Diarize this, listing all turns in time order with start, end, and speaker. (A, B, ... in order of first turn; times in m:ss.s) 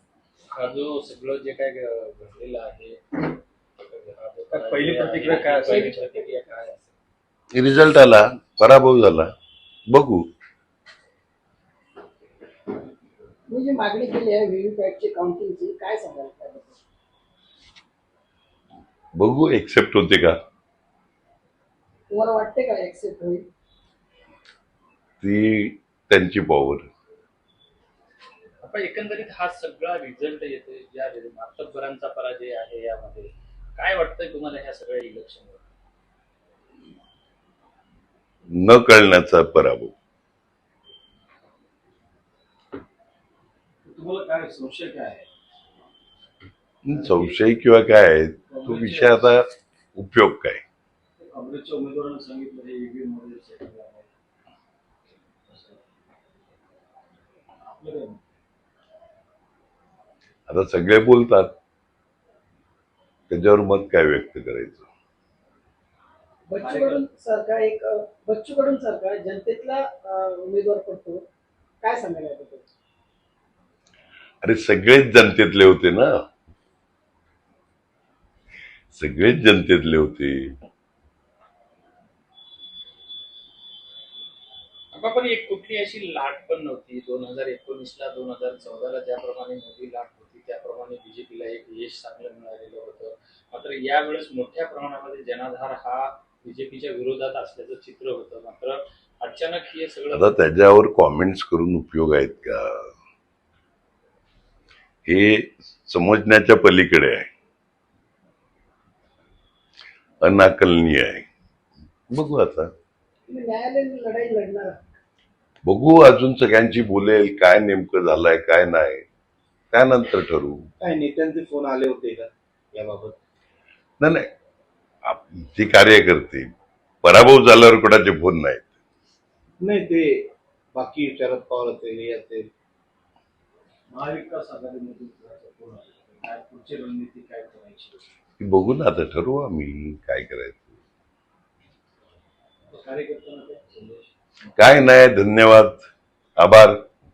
0:00.5-0:03.3 A
0:03.8-0:06.9 A
0:04.5-0:06.1 B
0:07.5-0:09.3 C
0:09.9-0:10.2 C
0:13.5-0:16.8 D
0:19.2-0:20.4 C
0:22.1-0:23.5 D
0:25.2-0:26.9 C
0:28.6-0:35.6 A
0:38.5-0:39.9 C
0:43.8-0:45.3 B
0:46.8-0:50.6 C
0:46.9-0:47.4 B
0:48.5-0:49.2 B
0:51.2-0:54.1 B
0:55.5-0:55.8 B
0:57.6-0:58.2 B
1:00.5-1:01.5 C
1:03.3-1:04.9 C
1:06.5-1:11.2 D
1:06.6-1:07.0 B
1:11.8-1:12.7 D
1:14.4-1:16.1 C
1:18.9-1:20.5 C
1:24.9-1:40.4 A
1:40.1-1:42.9 C
1:45.1-1:47.3 C
1:50.2-1:51.2 C
1:52.1-1:52.7 C
1:53.3-1:54.8 D
1:55.6-1:59.0 C
1:59.7-2:00.6 C
2:00.8-2:03.2 E
2:04.0-2:04.3 C
2:05.0-2:06.5 C
2:07.0-2:08.7 C
2:09.6-2:12.5 E
2:13.9-2:18.1 B
2:18.4-2:20.8 C
2:22.7-2:24.1 B
2:24.6-2:25.8 C
2:26.4-2:26.8 C